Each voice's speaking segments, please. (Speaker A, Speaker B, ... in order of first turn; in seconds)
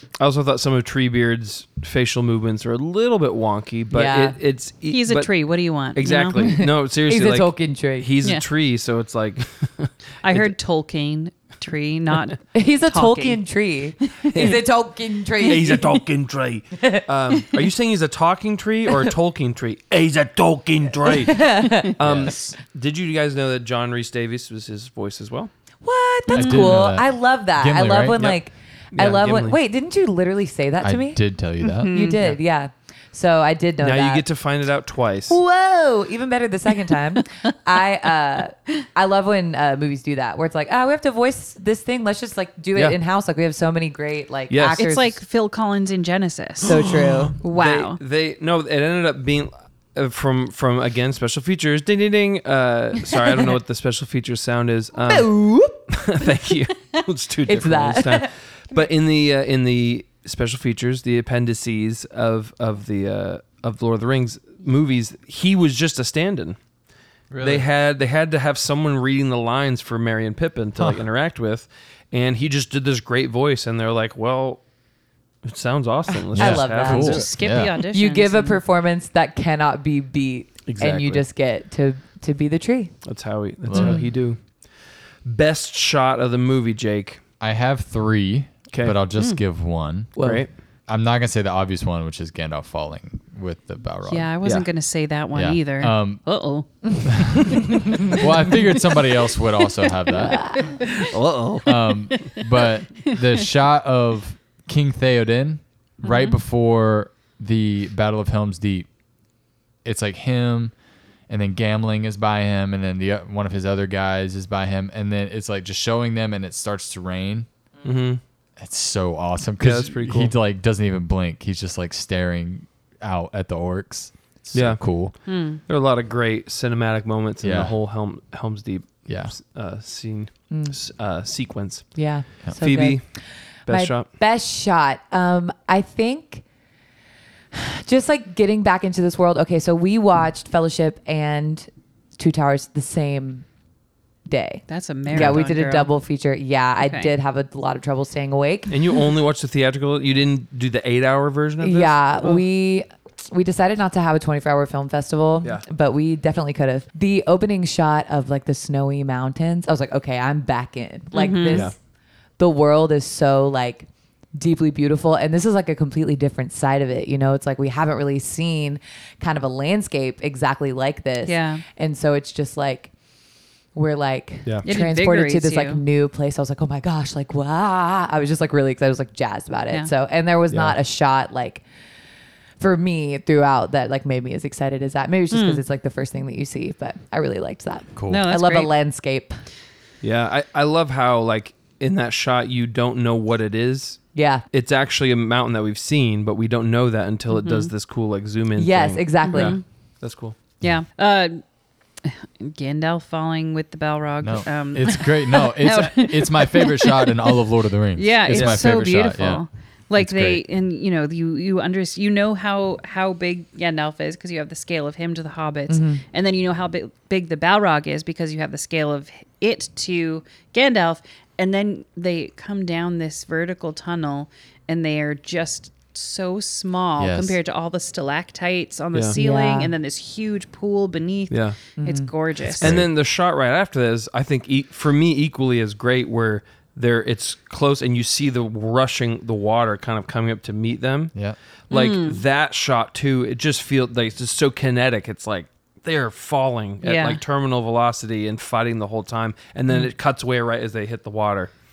Speaker A: 0.2-10.5, 14.3-14.6, 15.4-25.5, 28.9-29.6, 33.8-35.4, 44.5-44.8, 47.5-66.6, 67.4-74.6, 75.4-77.3, 80.7-81.2, 83.0-84.4, 85.2-87.2, 88.7-89.0, 90.2-90.5, 94.4-94.7, 101.0-101.7, 117.8-118.2, 119.6-120.3, 124.5-124.8, 125.7-133.1, 133.7-134.1, 145.1-145.4, 148.7-152.4, 180.5-180.8, 190.0-200.4, 208.3-208.6, 231.3-231.6, 232.5-241.1, 241.7-251.5
Speaker B: 3.9-4.4, 6.4-8.1, 12.5-15.8, 16.7-17.1, 21.0-21.9, 25.8-31.2, 31.9-34.2, 35.3-45.2, 46.6-47.4, 55.0-55.8, 57.4-58.3, 76.3-77.3, 77.8-82.9, 83.7-84.0, 90.2-90.4, 100.3-100.7, 130.5-130.7, 131.9-133.0, 133.7-136.4, 137.5-143.4, 144.3-148.7, 151.6-161.7, 162.4-172.9, 173.7-181.6, 182.6-189.3, 194.1-194.4, 198.6-199.6, 215.7-216.0, 229.1-229.7, 231.8-232.1
Speaker C: 4.9-6.5, 10.2-13.4, 14.1-14.5, 26.3-26.8, 31.6-32.2, 44.7-46.8, 47.4-48.0, 76.9-78.6, 94.1-98.2, 100.1-101.0, 102.1-103.2, 106.0-106.4, 125.3-125.6, 144.7-145.9, 146.8-147.1, 161.1-161.7, 171.2-171.6, 174.6-175.8, 185.3-185.6, 188.1-188.7, 197.3-197.7, 199.2-199.6, 200.6-201.4, 202.0-207.4, 207.9-232.8, 241.7-242.2, 246.8-247.2
Speaker D: 22.0-22.6, 26.3-28.2, 30.8-31.9, 67.3-67.7, 76.3-77.7, 83.7-84.0, 87.4-90.1, 90.9-94.3, 95.3-96.2, 97.1-100.8, 101.6-108.9, 109.8-110.7, 111.3-117.5, 118.6-125.1, 127.4-127.7, 129.1-129.3, 187.9-188.3, 204.2-209.4, 209.9-210.4, 227.0-227.3, 232.6-232.9